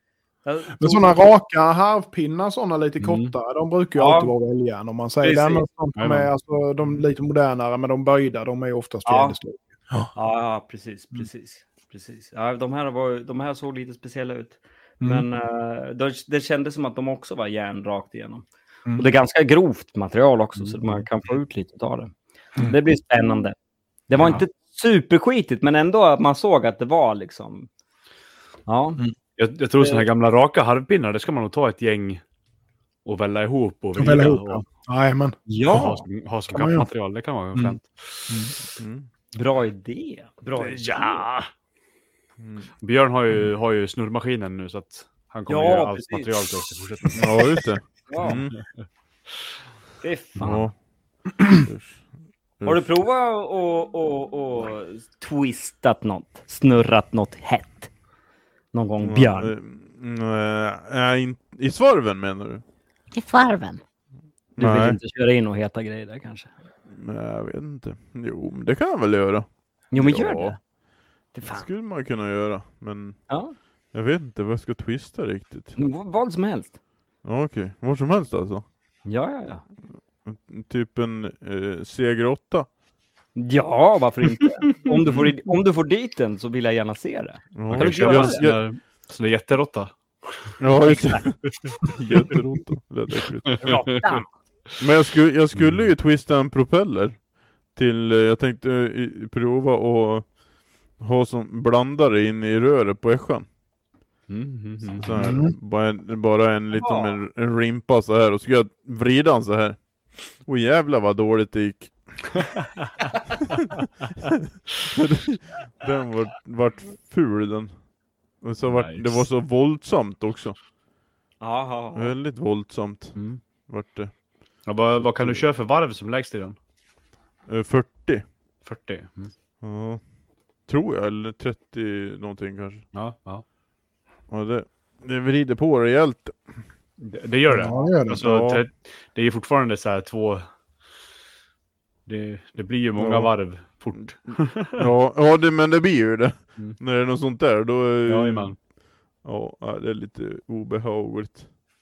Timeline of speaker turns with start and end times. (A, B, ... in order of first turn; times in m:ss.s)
0:00.4-0:01.2 A
0:00.8-0:10.1 B
0:03.0-0:03.3 C
0:04.0-0:04.3 A
0:05.2-0:05.6 A
0:06.0-0:06.3 C
0:09.0-0:09.4 A
0:10.1-0:18.4 A
0:19.0-0:22.1 A
0:20.6-0:21.0 C
0:22.6-0:23.6 A
0:24.1-0:27.7 A
0:28.7-0:29.0 A
0:29.4-0:32.2 C
0:29.8-0:30.1 A
0:33.0-0:34.6 C
0:34.0-0:35.4 B
0:35.5-0:36.0 A
0:35.6-0:38.3 C
0:36.5-0:36.9 B
0:38.3-0:38.5 B
0:38.8-0:39.1 D
0:39.3-0:41.2 A
0:40.6-0:41.4 C
0:42.4-0:42.7 D
0:42.8-0:47.5 C
0:45.5-0:46.5 A
0:47.2-0:48.6 D
0:48.1-0:48.4 A
0:48.2-0:48.6 C
0:50.0-0:50.7 A
0:50.4-0:50.8 D
0:51.5-0:52.9 D
0:52.6-0:57.9 A
0:58.7-0:59.5 A
0:59.0-1:02.6 D
1:03.1-1:03.8 A
1:04.6-1:05.0 D
1:04.6-1:06.5 A
1:06.9-1:10.6 D
1:09.9-1:10.6 A
1:11.3-1:11.7 A
1:11.4-1:13.3 D
1:13.3-1:13.5 A
1:13.9-1:15.8 D
1:15.8-1:16.7 A
1:17.2-1:18.7 D
1:19.0-1:19.6 A
1:20.2-1:22.7 D
1:23.4-1:28.4 A
1:25.0-1:25.3 D
1:27.6-1:28.6 D
1:27.7-1:30.6 C
1:30.6-1:33.8 D
1:30.8-1:31.3 A
1:33.6-1:34.2 A
1:33.6-1:34.2 C
1:34.8-1:40.3 D
1:35.5-1:35.9 C
1:40.9-1:43.5 D
1:44.3-1:45.4 C
1:44.9-1:49.8 D
1:45.2-1:45.5 B
1:46.7-1:47.2 A
1:50.3-1:52.6 D
1:54.8-2:00.6 D
1:58.6-1:59.3 C
2:01.4-2:02.1 A
2:01.9-2:04.2 D
2:03.1-2:03.4 C
2:04.6-2:06.6 C
2:05.0-2:05.4 D
2:07.5-2:08.3 D
2:08.6-2:09.3 C
2:09.6-2:10.0 D
2:10.6-2:12.9 D
2:12.9-2:13.4 C
2:14.3-2:16.4 D
2:17.0-2:20.4 C
2:17.5-2:18.2 B
2:18.2-2:18.6 D
2:22.0-2:24.9 C
2:23.0-2:23.3 D
2:24.8-2:28.6 D
2:28.1-2:28.6 C
2:29.2-2:31.4 D